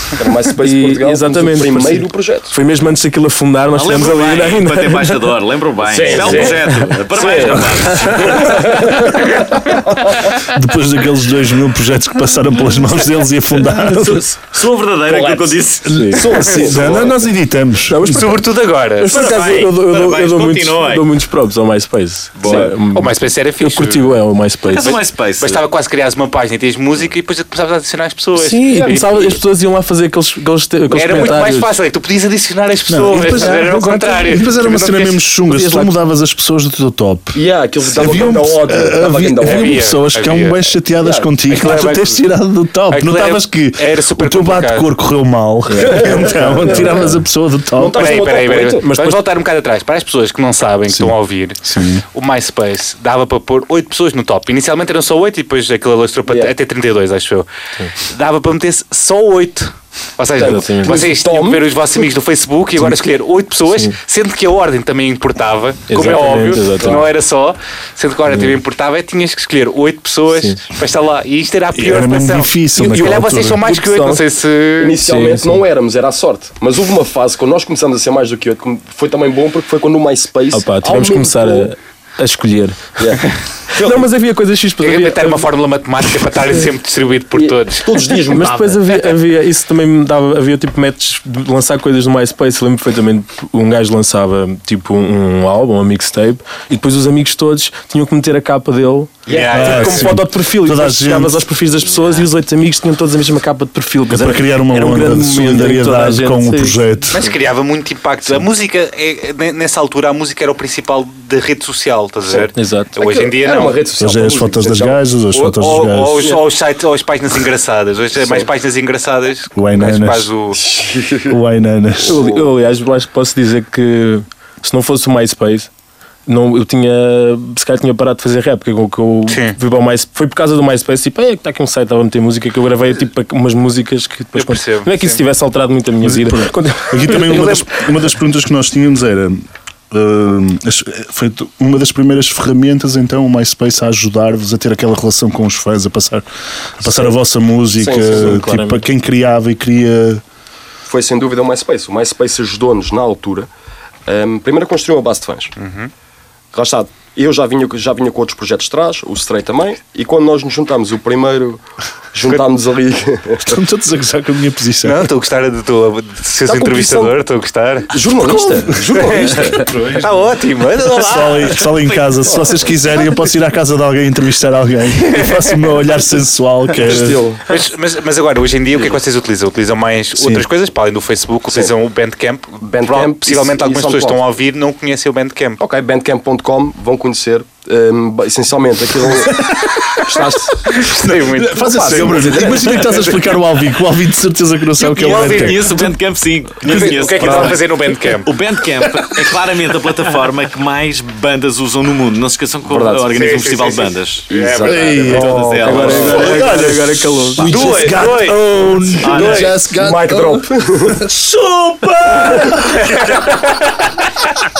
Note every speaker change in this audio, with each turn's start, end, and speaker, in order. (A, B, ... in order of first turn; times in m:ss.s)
0:00.2-0:02.5 A
0:00.6-0:05.3 B
0:03.7-0:08.6 C
0:05.8-0:09.2 A
0:06.1-0:08.7 B
0:10.3-0:14.2 D
0:13.7-0:16.0 C
0:13.7-0:14.4 B
0:15.1-0:15.6 A
0:15.8-0:18.2 D
0:15.9-0:16.4 B
0:16.1-0:17.2 A
0:16.4-0:17.0 E
0:17.9-0:18.4 B
0:18.0-0:19.3 E
0:19.0-0:24.9 B
0:19.1-0:21.1 C
0:22.4-0:22.7 C
0:22.4-0:22.7 A
0:22.9-0:24.1 E
0:24.7-0:25.6 C
0:24.8-0:29.4 E
0:28.3-0:31.7 B
0:30.9-0:35.2 E
0:32.9-0:48.0 D
0:33.1-0:33.6 B
0:35.5-0:35.9 B
0:37.3-0:39.8 A
0:39.4-0:40.7 E
0:41.0-0:41.4 A
0:41.5-0:42.2 E
0:42.9-0:44.9 E
0:45.7-0:47.1 B
0:45.8-0:47.0 A
0:47.8-0:48.9 A
0:47.9-1:15.0 E
0:48.8-0:49.2 B
0:50.9-0:52.0 D
0:56.3-0:56.5 A
1:00.3-1:02.0 A
1:00.4-1:01.0 B
1:03.7-1:04.0 B
1:05.9-1:07.1 B
1:08.3-1:08.6 B
1:10.3-1:10.6 B
1:11.7-1:13.6 D
1:13.6-1:14.3 B
1:14.8-1:21.7 A
1:15.0-1:15.6 B
1:20.5-1:23.2 B
1:23.0-1:24.0 A
1:23.7-1:25.5 B
1:24.8-1:28.2 E
1:27.3-1:28.8 A
1:28.3-1:47.3 B
1:39.2-1:40.0 A
1:39.3-1:40.1 E
1:39.5-1:41.4 D
1:41.9-1:42.3 C
1:44.1-1:47.3 D
1:47.1-1:53.9 E
1:52.3-1:55.0 A
1:52.5-1:52.9 B
1:54.0-1:56.3 D
1:55.3-2:00.6 E
1:56.2-1:56.4 A
1:58.2-1:58.5 A
1:59.5-2:00.3 D
2:00.5-2:01.4 A
2:01.3-2:02.2 D
2:02.0-2:05.7 B
2:02.1-2:02.5 A
2:06.2-2:17.6 B
2:09.3-2:09.6 E
2:14.3-2:15.2 E
2:16.0-2:30.2 D
2:17.2-2:17.6 E
2:27.8-2:28.4 A
2:28.0-2:28.9 B
2:30.8-2:33.5 A
2:34.0-2:35.5 A
2:35.6-2:35.9 E
2:36.5-2:41.6 A
2:42.1-2:43.6 A
2:43.4-2:45.1 D
2:44.8-2:48.0 E
2:46.4-2:47.2 A
2:47.9-2:49.9 A
2:48.2-2:50.1 D
2:48.9-2:52.0 E
2:50.8-2:57.2 D
2:52.3-2:52.5 A
2:54.9-2:55.6 E
2:56.8-2:57.5 A
2:56.8-3:05.6 E
3:00.2-3:00.4 D
3:02.6-3:04.2 A
3:05.6-3:13.1 A
3:10.6-3:13.4 E
3:11.1-3:15.9 D
3:14.8-3:24.3 C
3:14.8-3:15.8 E
3:16.6-3:18.3 E
3:16.7-3:17.6 A
3:22.7-3:23.7 A
3:23.1-3:26.5 E
3:24.3-3:25.3 A
3:24.6-3:33.3 D
3:25.1-3:26.5 C
3:25.1-3:27.7 B
3:27.4-3:29.6 E
3:29.0-3:29.5 C
3:29.2-3:31.0 A
3:32.4-3:34.3 E